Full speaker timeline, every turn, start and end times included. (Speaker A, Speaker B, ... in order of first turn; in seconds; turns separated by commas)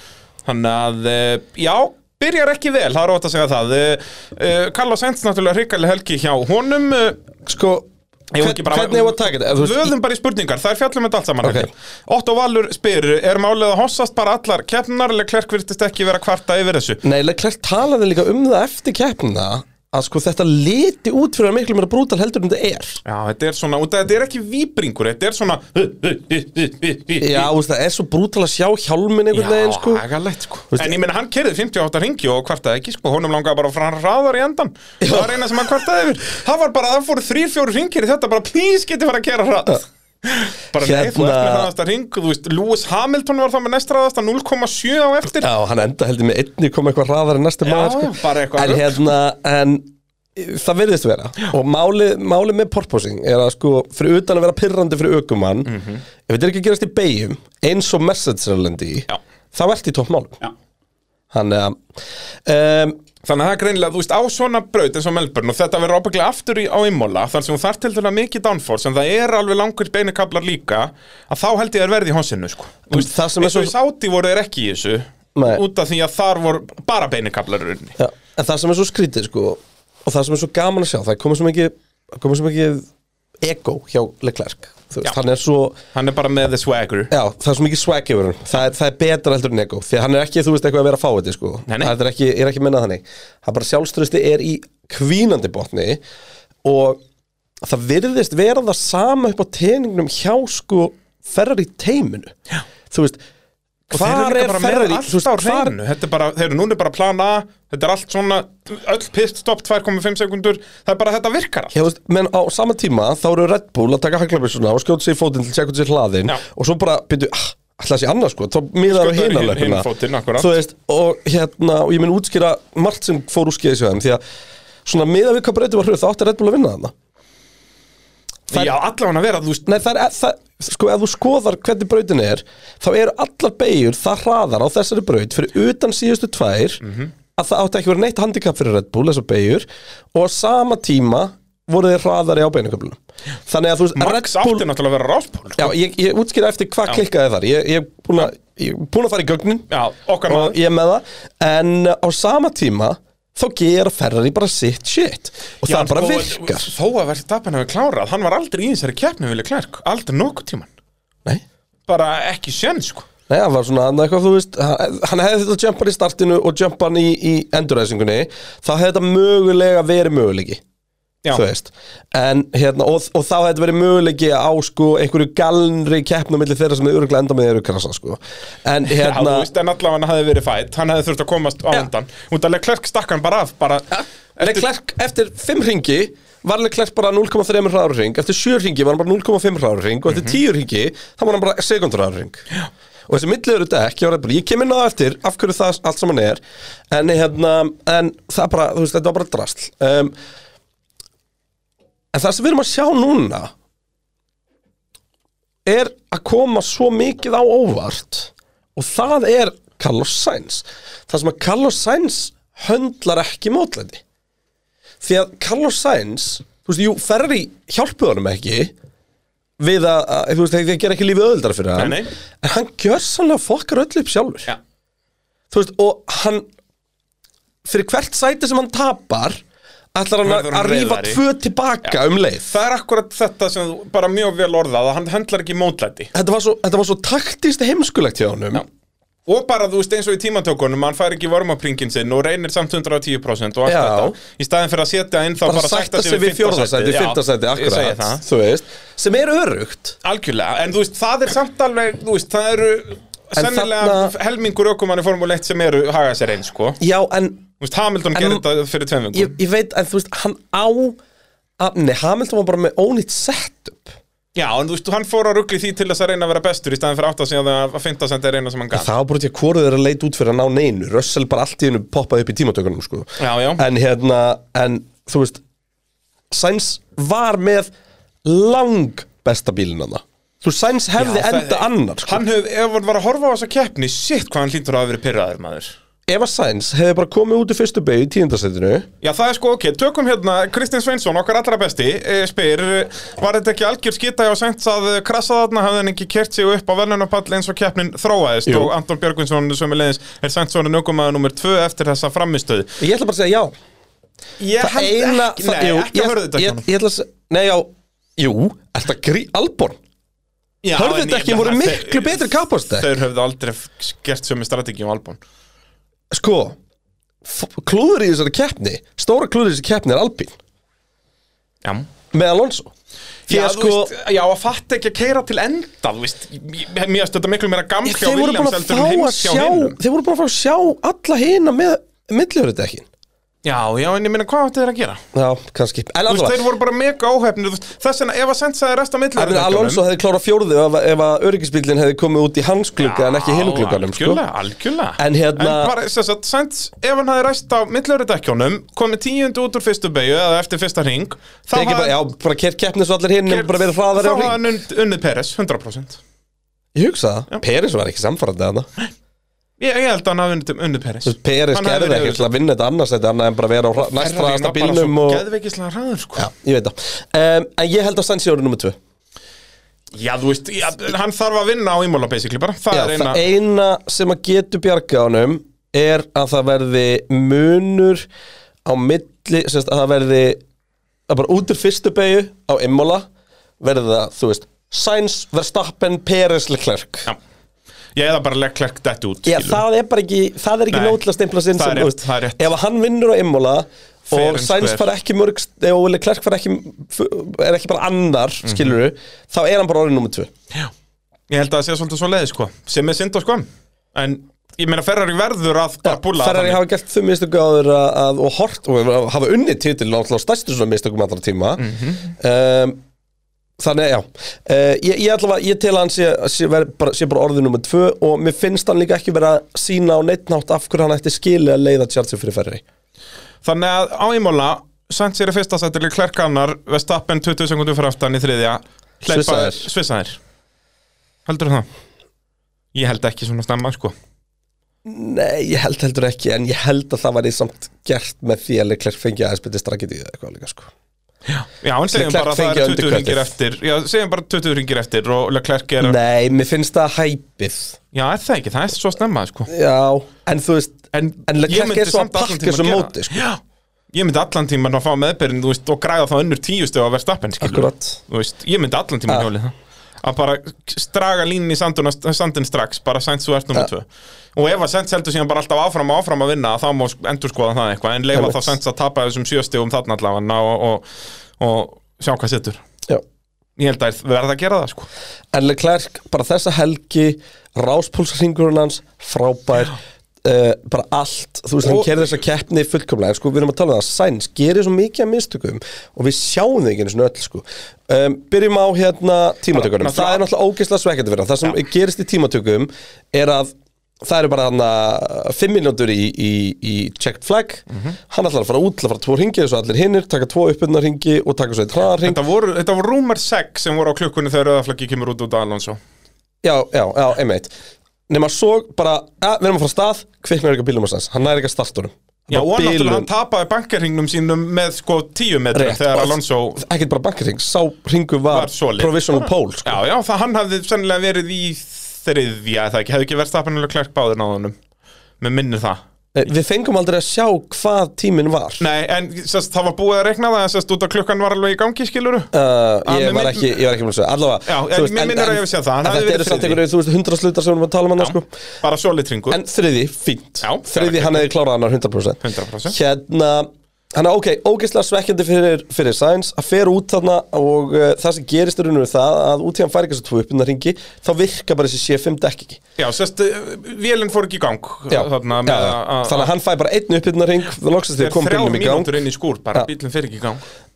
Speaker A: 0.5-7.2, Speaker B: 7.5-9.9, Speaker A: 8.3-17.0, Speaker B: 11.4-11.7, Speaker B: 17.0-23.0, Speaker A: 23.1-27.5, Speaker B: 27.2-30.0, Speaker A: 29.3-45.5, Speaker B: 35.0-35.5, Speaker B: 40.8-41.7, Speaker B: 45.4-55.7, Speaker A: 47.6-49.1, Speaker A: 55.6-56.0, Speaker B: 56.3-60.4, Speaker B: 61.3-61.8, Speaker B: 62.5-63.0, Speaker A: 63.2-78.0, Speaker B: 72.9-73.7, Speaker B: 75.3-75.6, Speaker B: 78.0-82.9, Speaker B: 83.4-85.8, Speaker A: 85.9-87.1, Speaker B: 87.1-96.0, Speaker A: 91.7-92.0, Speaker B: 96.6-97.0, Speaker B: 97.6-102.3, Speaker B: 102.9-103.2, Speaker B: 103.9-105.7, Speaker A: 103.9-111.7, Speaker B: 111.7-124.2, Speaker A: 118.9-120.5, Speaker B: 124.9-126.9, Speaker A: 128.5-129.7, Speaker B: 129.7-136.8, Speaker A: 136.8-137.1, Speaker B: 137.4-144.7, Speaker A: 143.9-145.7, Speaker B: 145.6-149.7, Speaker A: 149.7-150.6, Speaker B: 150.3-156.7, Speaker A: 155.6-160.7, Speaker A: 161.9-163.1, Speaker B: 163.3-170.6, Speaker B: 171.3-179.5, Speaker A: 178.9-184.7, Speaker B: 183.9-192.4, Speaker A: 190.1-190.4, Speaker B: 193.1-200.1, Speaker B: 202.1-203.5, Speaker B: 205.6-214.0, Speaker B: 215.0-218.7, Speaker B: 219.6-224.5, Speaker A: 221.8-222.1, Speaker B: 225.5-226.4, Speaker B: 227.6-229.4, Speaker B: 229.9-232.5, Speaker A: 230.2-231.2, Speaker A: 231.8-236.1, Speaker B: 236.1-238.6, Speaker A: 239.3-248.2, Speaker B: 243.7-244.2, Speaker B: 245.4-250.0, Speaker A: 250.0-256.8, Speaker B: 253.3-254.1, Speaker B: 256.8-257.4, Speaker A: 257.6-259.4, Speaker B: 258.1-258.4, Speaker B: 259.1-261.0, Speaker B: 261.6-263.9, Speaker A: 264.3-268.9, Speaker B: 268.7-275.4, Speaker A: 273.2-273.6, Speaker B: 276.3-277.7, Speaker B: 278.2-282.2, Speaker A: 280.9-285.8, Speaker B: 286.1-288.9, Speaker A: 289.0-302.7, Speaker B: 298.4-298.7, Speaker B: 302.8-303.5, Speaker A: 304.4-306.7, Speaker B: 304.6-309.8, Speaker A: 310.6-315.2, Speaker B: 310.8-312.9, Speaker B: 316.1-316.6, Speaker B: 317.2-320.4, Speaker B: 322.1-322.7, Speaker B: 323.3-323.9, Speaker A: 323.3-329.8, Speaker B: 327.8-332.9, Speaker A: 333.4-335.0, Speaker B: 335.1-336.4, Speaker A: 336.1-339.8, Speaker B: 339.2-344.2, Speaker A: 342.8-352.0, Speaker B: 345.0-345.7, Speaker B: 351.5-354.4, Speaker A: 353.3-356.0, Speaker B: 356.7-358.7, Speaker A: 359.6-362.3, Speaker B: 361.0-365.2, Speaker A: 363.8-366.3, Speaker B: 366.1-368.8, Speaker A: 369.9-373.2, Speaker B: 372.7-378.1, Speaker B: 378.6-380.4, Speaker B: 381.1-383.1, Speaker B: 383.6-387.1, Speaker A: 387.9-389.6, Speaker B: 389.3-400.3, Speaker A: 390.7-391.0, Speaker A: 391.5-392.5, Speaker A: 394.1-394.9, Speaker A: 398.4-398.8, Speaker A: 401.3-406.6, Speaker B: 405.8-412.8, Speaker A: 411.6-412.1, Speaker B: 413.6-422.6, Speaker A: 423.4-430.2, Speaker B: 429.1-429.7, Speaker A: 431.3-431.7, Speaker A: 432.7-433.9, Speaker B: 434.8-440.7, Speaker A: 441.3-446.0, Speaker B: 441.9-443.3, Speaker B: 445.8-447.8, Speaker A: 447.9-449.5, Speaker B: 449.5-453.2, Speaker A: 450.9-453.4, Speaker A: 453.9-470.9, Speaker B: 457.4-458.0, Speaker B: 468.1-468.5, Speaker A: 471.4-472.6, Speaker A: 473.6-474.9, Speaker B: 475.3-502.2, Speaker A: 481.6-482.2, Speaker A: 489.5-490.3, Speaker A: 502.0-505.8, Speaker B: 506.4-507.5, Speaker B: 508.1-513.1, Speaker A: 512.3-516.6, Speaker B: 515.5-519.8, Speaker A: 518.3-524.5, Speaker A: 525.2-525.8, Speaker B: 526.1-528.6, Speaker A: 528.6-532.3, Speaker B: 532.3-538.3, Speaker A: 532.8-533.6, Speaker A: 534.5-536.6, Speaker A: 538.0-539.4, Speaker B: 539.3-552.6, Speaker A: 540.4-541.3, Speaker A: 542.2-542.8, Speaker A: 552.8-556.3, Speaker B: 554.9-558.9, Speaker A: 558.0-560.4